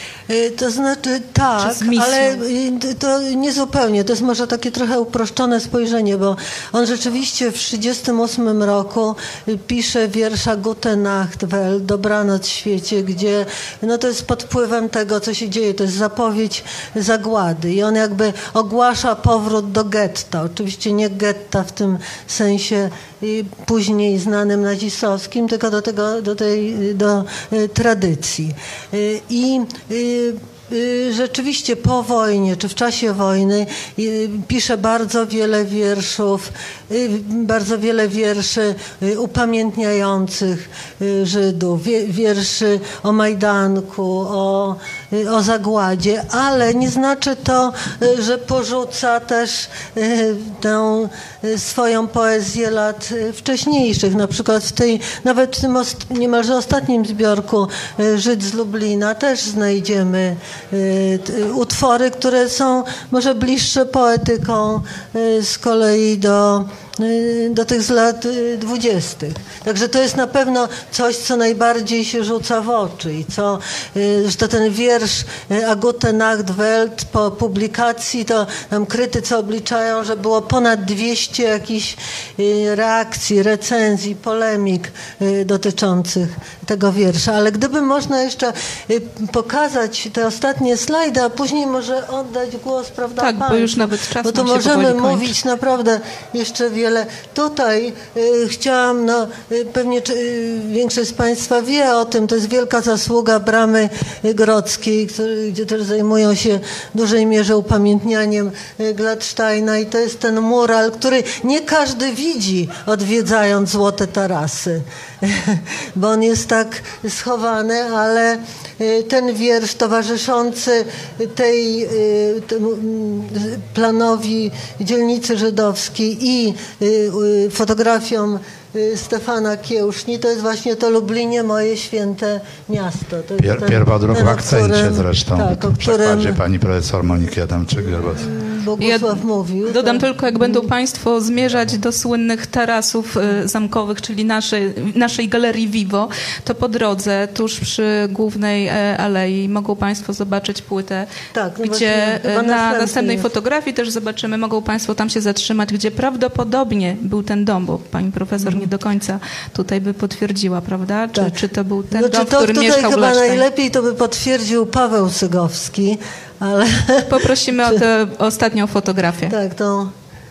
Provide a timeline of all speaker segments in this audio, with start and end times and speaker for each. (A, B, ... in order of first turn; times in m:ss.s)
0:00.3-2:16.4 A
0:01.6-0:02.4 B
1:33.2-1:35.3 B
2:13.4-2:18.3 C
2:18.2-2:20.7 A
2:18.8-2:31.1 B
2:31.3-2:33.3 A
2:31.6-2:43.5 B
2:38.4-2:38.7 A
2:41.9-2:47.8 A
2:47.1-2:49.3 B
2:49.3-2:49.9 A